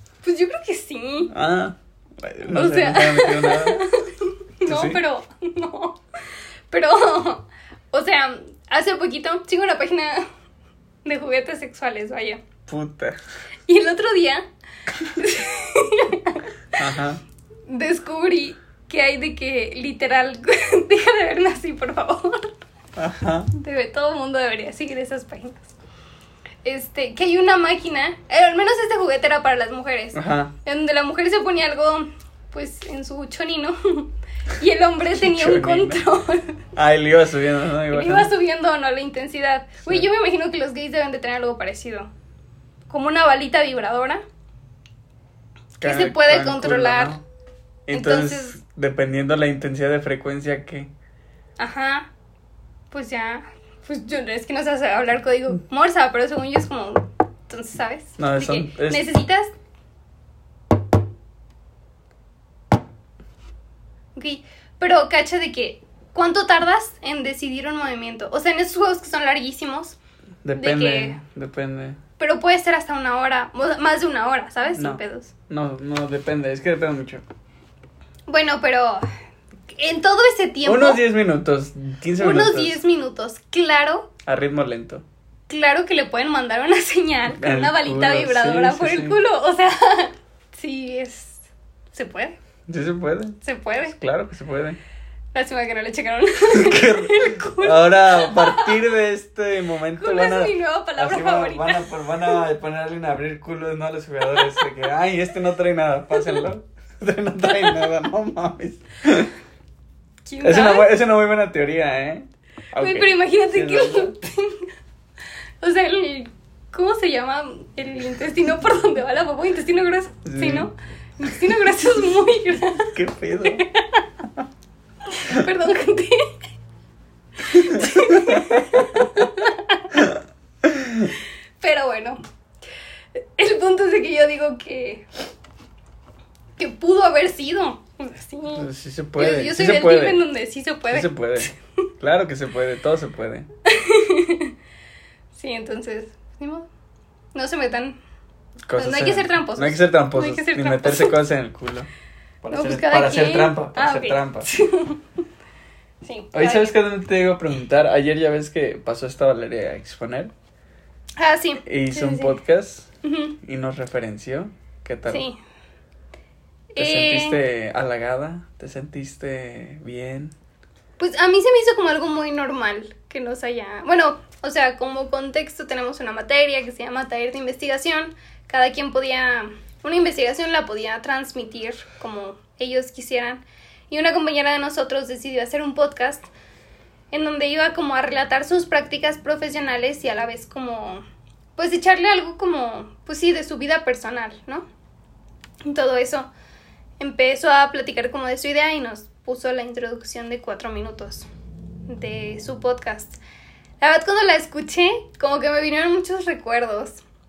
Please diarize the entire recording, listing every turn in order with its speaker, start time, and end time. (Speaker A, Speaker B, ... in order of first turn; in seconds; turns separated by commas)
Speaker A: 0.2-1.3, Speaker B: 1.3-3.9, Speaker A: 2.5-10.3, Speaker B: 4.7-5.0, Speaker A: 11.0-12.4, Speaker B: 12.7-13.2, Speaker A: 13.7-14.4, Speaker A: 15.0-16.5, Speaker B: 16.8-17.2, Speaker A: 17.7-22.6, Speaker B: 22.9-23.5, Speaker A: 23.5-25.7, Speaker A: 26.6-36.6, Speaker B: 30.1-30.5, Speaker B: 35.1-36.0, Speaker B: 36.7-38.3, Speaker A: 37.9-42.1, Speaker A: 42.9-44.2, Speaker A: 45.8-47.2, Speaker B: 45.8-47.2, Speaker B: 47.9-50.9, Speaker A: 47.9-48.6, Speaker A: 51.6-52.1, Speaker A: 52.9-59.5, Speaker B: 58.2-59.1, Speaker A: 64.1-70.0, Speaker B: 70.4-72.0, Speaker A: 70.5-71.2, Speaker A: 72.2-75.3, Speaker B: 74.8-77.2, Speaker A: 78.3-79.0, Speaker A: 79.7-81.0, Speaker B: 80.7-82.8, Speaker A: 82.2-84.1, Speaker B: 84.2-85.0, Speaker A: 85.5-92.4, Speaker B: 87.3-89.2, Speaker B: 92.7-94.8, Speaker A: 93.4-94.0, Speaker A: 95.3-98.8, Speaker B: 96.5-109.3, Speaker A: 100.0-102.4, Speaker A: 104.3-104.7, Speaker A: 106.1-106.4, Speaker A: 110.2-110.9, Speaker B: 110.4-114.2, Speaker A: 112.8-114.7, Speaker A: 115.6-124.0, Speaker B: 120.2-120.7, Speaker B: 122.8-123.7, Speaker A: 125.0-126.2, Speaker A: 127.4-129.8, Speaker B: 127.5-129.3, Speaker B: 129.9-131.1, Speaker A: 131.6-132.2, Speaker A: 133.2-135.1, Speaker A: 136.6-138.7, Speaker B: 138.5-140.2, Speaker A: 139.2-141.6, Speaker B: 140.9-143.5, Speaker A: 143.7-144.5, Speaker A: 145.3-146.7, Speaker A: 147.3-148.0, Speaker B: 148.7-151.9, Speaker A: 148.8-151.1, Speaker B: 152.4-154.5, Speaker A: 152.5-155.0, Speaker A: 156.0-156.7, Speaker B: 156.3-160.3, Speaker A: 161.2-162.4, Speaker B: 161.6-165.2, Speaker A: 163.0-163.4, Speaker A: 165.1-165.4, Speaker A: 166.7-167.4, Speaker B: 166.8-170.3, Speaker A: 171.0-186.3, Speaker A: 187.1-191.0, Speaker A: 191.6-194.7, Speaker A: 195.6-196.3, Speaker A: 197.0-201.3, Speaker A: 201.9-203.2, Speaker A: 203.8-207.0